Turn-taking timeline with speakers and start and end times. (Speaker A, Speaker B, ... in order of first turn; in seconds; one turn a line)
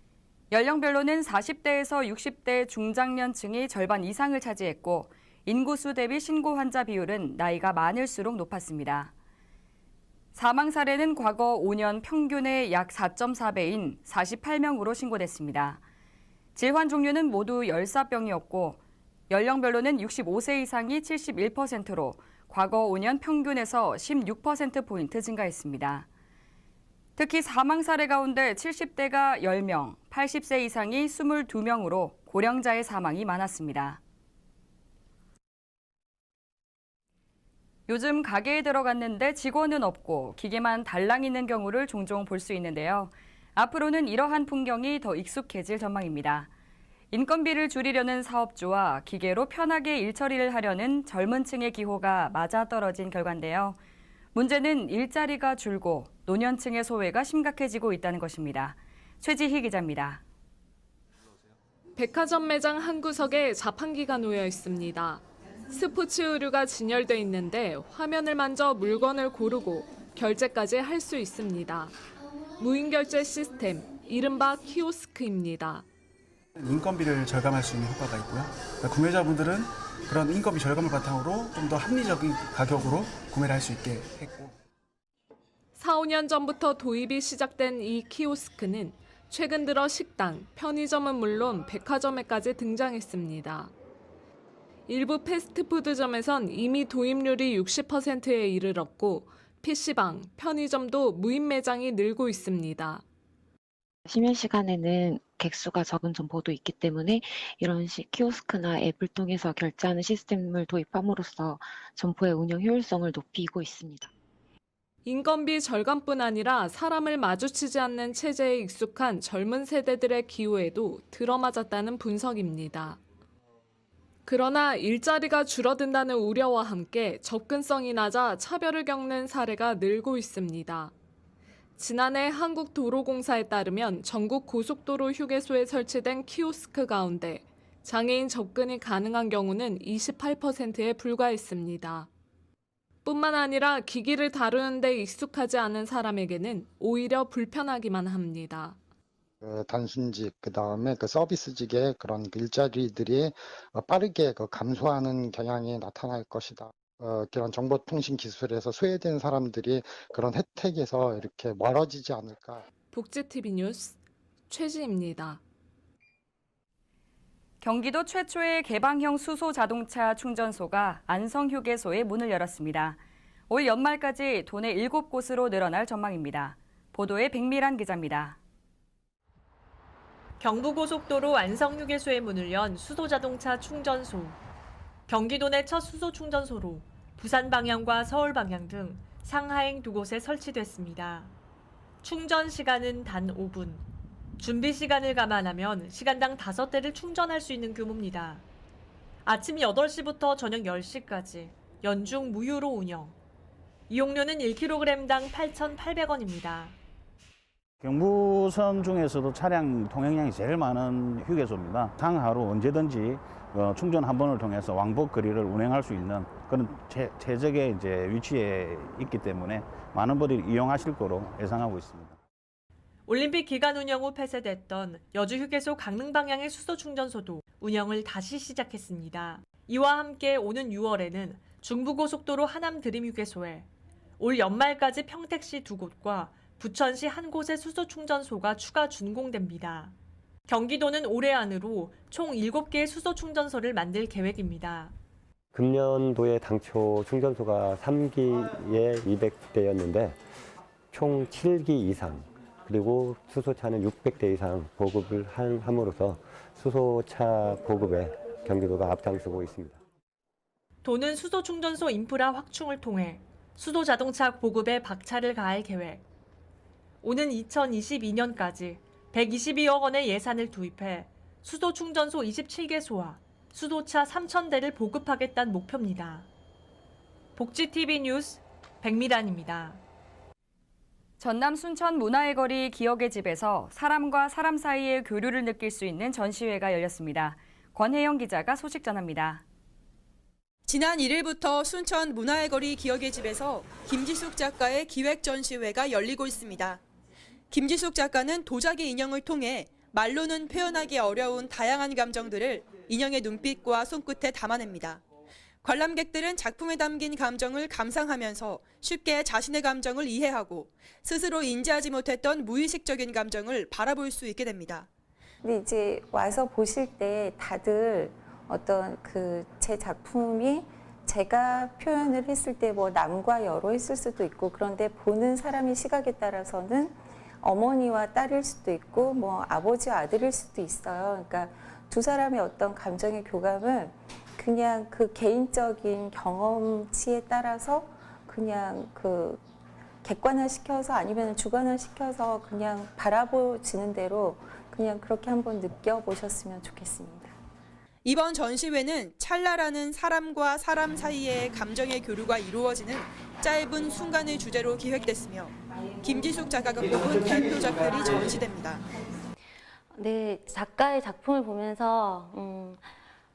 Speaker A: 0.5-9.1
Speaker A: 10.3-15.8
Speaker A: 16.5-26.1
Speaker A: 27.2-34.0
Speaker A: 37.9-46.5
Speaker A: 47.1-53.8
Speaker A: 54.3-60.2
Speaker B: 62.0-71.9
Speaker B: 72.6-75.8
Speaker C: 76.6-84.5
Speaker B: 85.8-93.7
Speaker B: 94.9-103.0
Speaker D: 104.1-114.1
Speaker B: 115.0-123.0
Speaker B: 124.3-130.9
Speaker B: 131.8-142.1
Speaker B: 143.0-148.8
Speaker E: 149.4-162.7
Speaker B: 162.9-164.0
Speaker B: 164.5-165.4
Speaker A: 167.6-178.4
Speaker F: 180.4-184.4
Speaker F: 185.1-191.3
Speaker F: 192.0-193.8
Speaker F: 194.4-198.4
Speaker F: 199.2-203.1
Speaker F: 203.9-206.8
Speaker G: 207.8-222.2
Speaker F: 223.1-233.7
Speaker F: 234.2-239.9
Speaker F: 240.5-244.9
Speaker H: 245.5-250.2
Speaker H: 250.9-259.8
Speaker F: 260.8-266.0
Speaker F: 267.0-276.3
Speaker F: 277.4-279.8
Speaker A: 281.2-289.4
Speaker I: 290.7-296.8
Speaker I: 297.5-305.0
Speaker I: 305.6-314.9
Speaker J: 315.4-339.4
Speaker J: 340.0-347.3
Speaker I: 348.0-358.8
Speaker K: 359.9-362.9